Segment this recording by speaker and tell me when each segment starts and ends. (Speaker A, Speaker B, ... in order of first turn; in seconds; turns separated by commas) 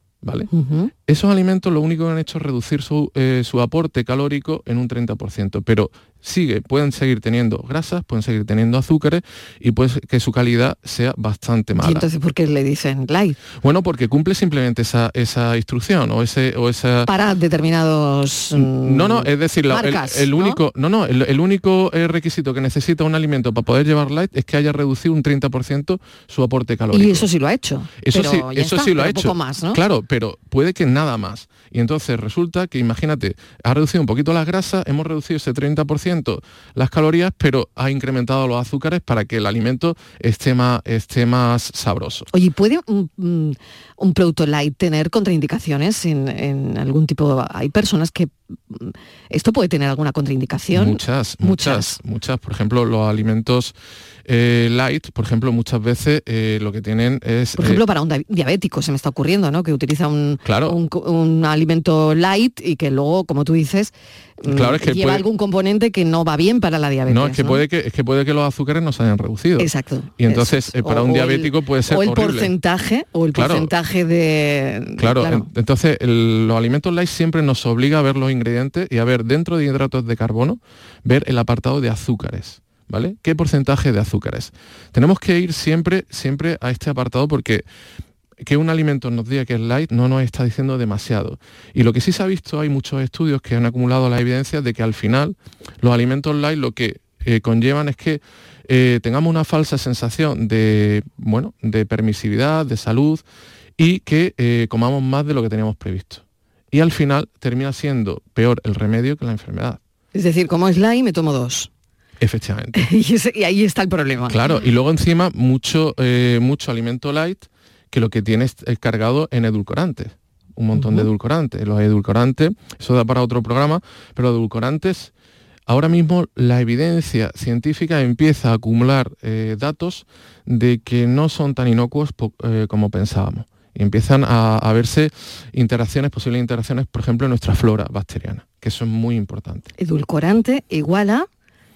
Speaker A: 0.2-12.1, Speaker B: 0.5-0.9, Speaker B: 11.7-13.4, Speaker A: 13.6-17.1, Speaker B: 17.1-20.6, Speaker A: 18.5-27.3, Speaker B: 26.9-29.8, Speaker A: 28.0-42.3, Speaker B: 42.3-52.0, Speaker A: 50.7-57.8, Speaker B: 57.6-67.6, Speaker A: 60.4-60.8, Speaker A: 64.5-65.2, Speaker A: 67.1-72.5, Speaker B: 69.6-75.5, Speaker A: 73.3-73.7, Speaker A: 75.0-87.6, Speaker A: 88.4-103.2, Speaker A: 103.8-109.8, Speaker B: 110.1-111.7, Speaker A: 112.2-112.9, Speaker B: 112.7-114.4, Speaker A: 114.3-125.1, Speaker B: 120.8-121.1, Speaker A: 125.7-139.7, Speaker B: 139.8-141.3